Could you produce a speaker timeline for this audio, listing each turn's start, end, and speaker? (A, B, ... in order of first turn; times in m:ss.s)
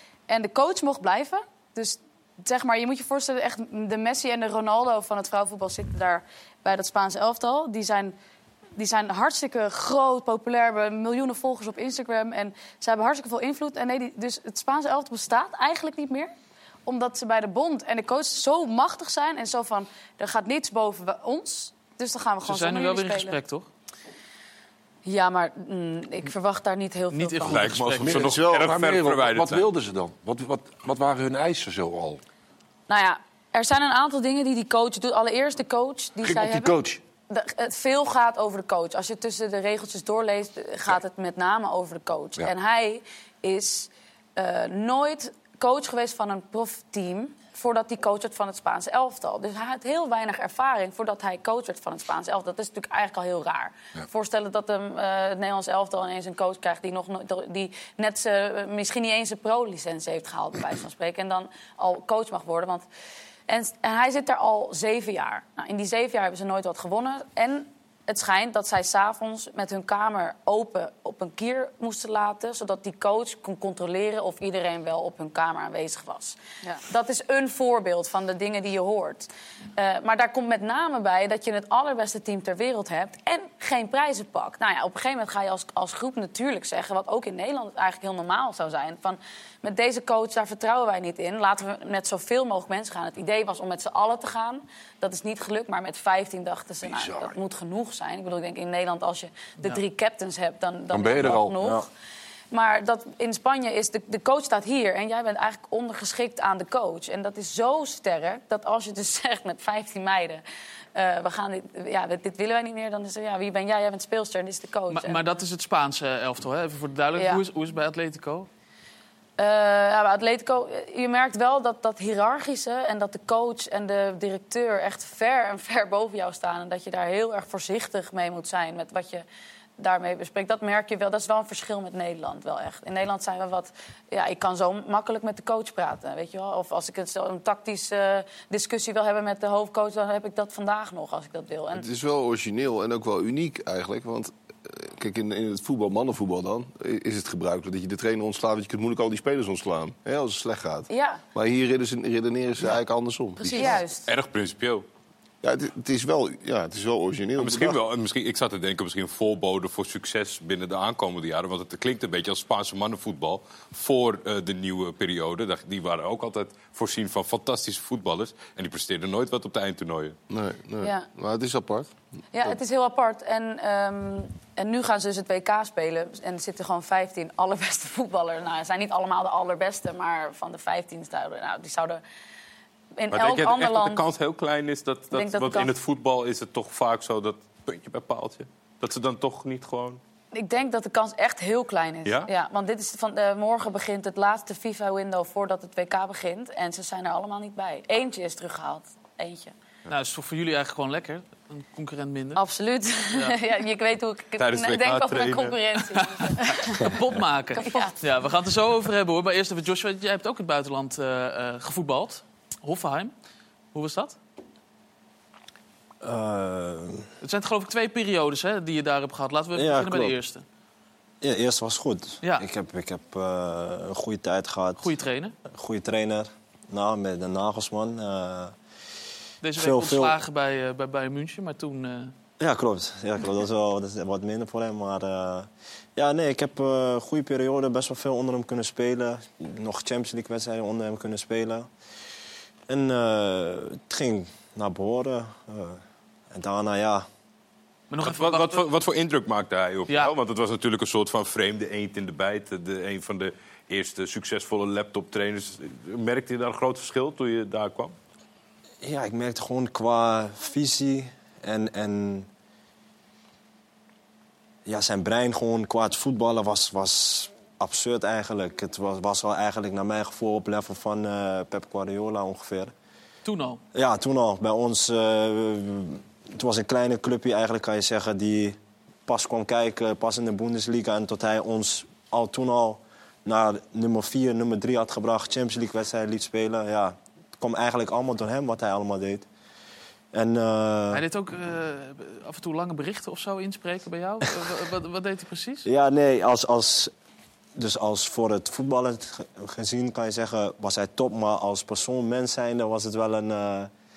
0:00.3-0:08.2 A
0:08.8-0:16.3 A
0:16.8-0:23.4 A
0:22.4-0:23.7 B
0:25.0-0:27.6 C
0:27.1-0:28.4 B
0:27.4-0:29.7 D
0:27.8-0:32.2 E
0:32.9-1:02.9 C
0:36.2-0:37.0 E
1:03.5-1:41.9 C
1:36.9-1:37.3 E
1:40.9-1:41.6 E
1:42.5-1:50.4 C
1:51.0-1:55.2 C
1:54.9-1:58.5 B
1:57.2-1:57.4 C
1:59.4-2:09.2 C
2:09.8-2:21.8 C
2:21.7-2:33.8 F
2:30.9-2:31.2 C
2:33.4-2:34.0 C
2:33.6-2:34.8 D
2:35.4-2:37.8 F
2:37.4-2:50.2 D
2:50.3-2:52.0 F
2:50.8-2:51.1 C
2:52.3-3:02.0 C
3:03.0-3:04.0 C
3:03.1-3:10.0 D
3:05.1-3:05.7 C
3:10.3-3:19.5 C
3:12.0-3:12.3 D
3:19.9-3:22.4 B
3:22.4-3:27.0 C
3:24.4-3:25.6 D
3:26.0-3:33.1 B
3:27.5-3:28.0 C
3:33.7-3:34.2 B
3:36.0-3:37.1 G
3:37.2-3:40.4 B
3:39.6-3:40.2 G
3:41.2-3:44.9 G
3:44.8-3:45.4 B
3:45.5-3:48.6 G
3:49.4-3:52.1 B
3:49.6-3:50.2 G
3:52.4-4:01.7 G
4:02.7-4:07.1 G
4:07.9-4:08.7 B
4:08.0-4:17.9 D
4:18.8-4:22.3 G
4:24.7-4:32.7 G
4:33.2-4:33.6 B
4:33.7-4:49.3 G
4:50.1-4:51.0 G
4:50.9-4:55.7 B
4:55.6-4:56.9 G
4:57.6-5:03.7 G